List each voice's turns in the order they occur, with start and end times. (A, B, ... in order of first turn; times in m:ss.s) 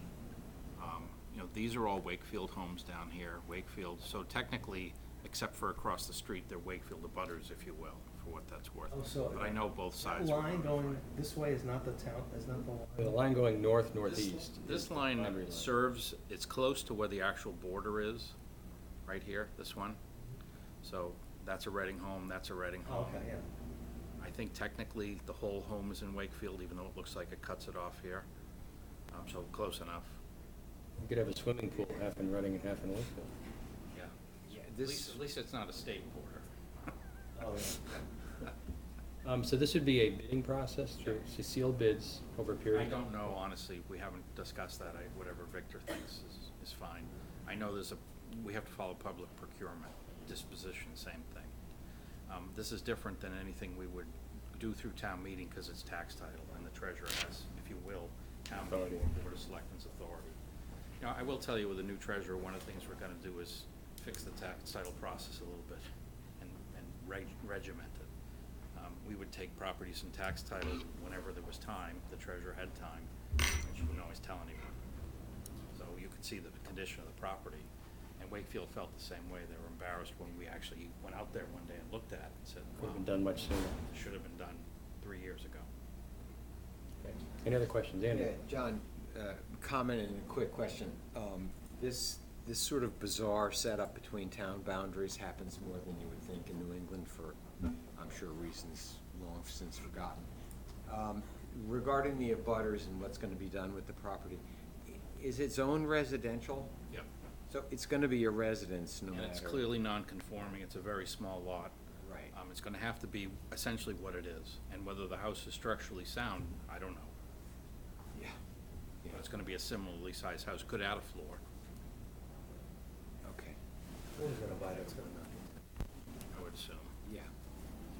0:00.8-0:11.0 A
0:08.9-0:13.2 B
0:13.0-0:15.7 C
0:14.0-0:18.4 A
0:19.0-0:20.0 A
0:20.8-0:23.3 A
0:22.8-0:23.4 B
0:24.2-0:28.2 A
0:29.1-0:30.2 A
0:31.0-0:33.3 C
0:34.5-0:35.2 D
0:34.7-0:36.5 A
0:37.3-0:37.8 B
0:39.2-0:43.0 C
0:42.7-0:51.5 A
0:52.3-1:00.4 A
0:58.6-0:59.1 C
1:01.0-1:05.8 A
1:06.4-1:08.1 A
1:08.7-1:14.7 A
1:15.7-1:23.1 A
1:22.8-1:23.8 C
1:23.8-1:25.7 A
1:27.0-1:28.3 C
1:28.1-1:40.3 D
1:40.8-1:46.7 D
1:47.5-1:49.7 D
1:49.1-1:51.8 A
1:52.0-1:52.3 D
1:52.3-1:57.1 A
1:59.1-2:01.4 A
2:03.2-2:03.6 D
2:04.1-2:05.5 B
2:06.3-2:06.9 A